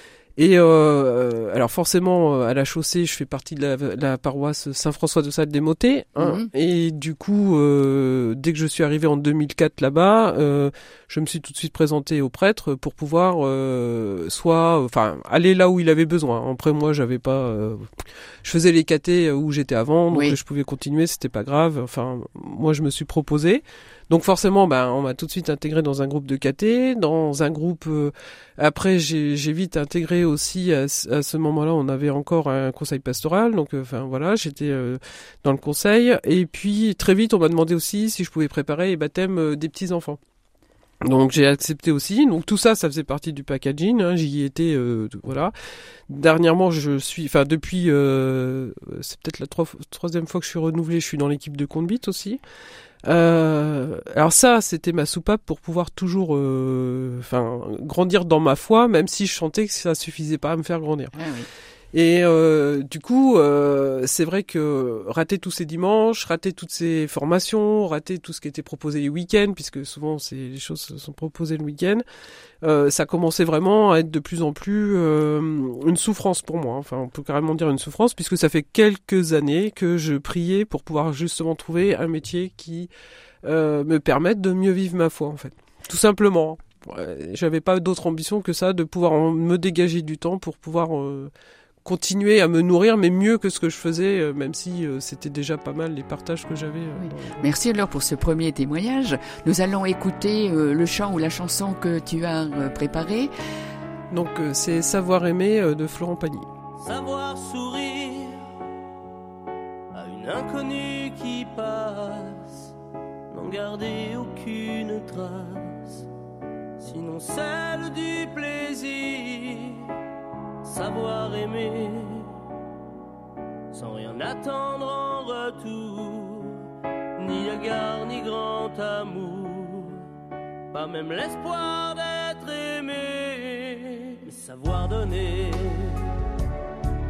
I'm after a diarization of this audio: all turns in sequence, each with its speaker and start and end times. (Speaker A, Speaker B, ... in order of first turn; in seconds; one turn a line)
Speaker A: 0.4-40.2
Speaker B: 6.2-6.5
Speaker B: 20.1-20.4
Speaker A: 41.0-45.5
Speaker A: 46.1-52.4
Speaker A: 53.0-61.1
Speaker B: 61.1-61.5
Speaker A: 61.9-72.0
Speaker A: 72.6-82.9
Speaker A: 83.4-91.3
Speaker A: 91.8-97.5
Speaker B: 97.0-103.3
Speaker A: 104.1-106.5
Speaker C: 106.8-108.4
Speaker C: 109.9-112.8
Speaker C: 113.3-116.1
Speaker C: 116.8-119.9
Speaker C: 120.6-122.3
Speaker C: 123.7-130.1
Speaker C: 130.7-136.2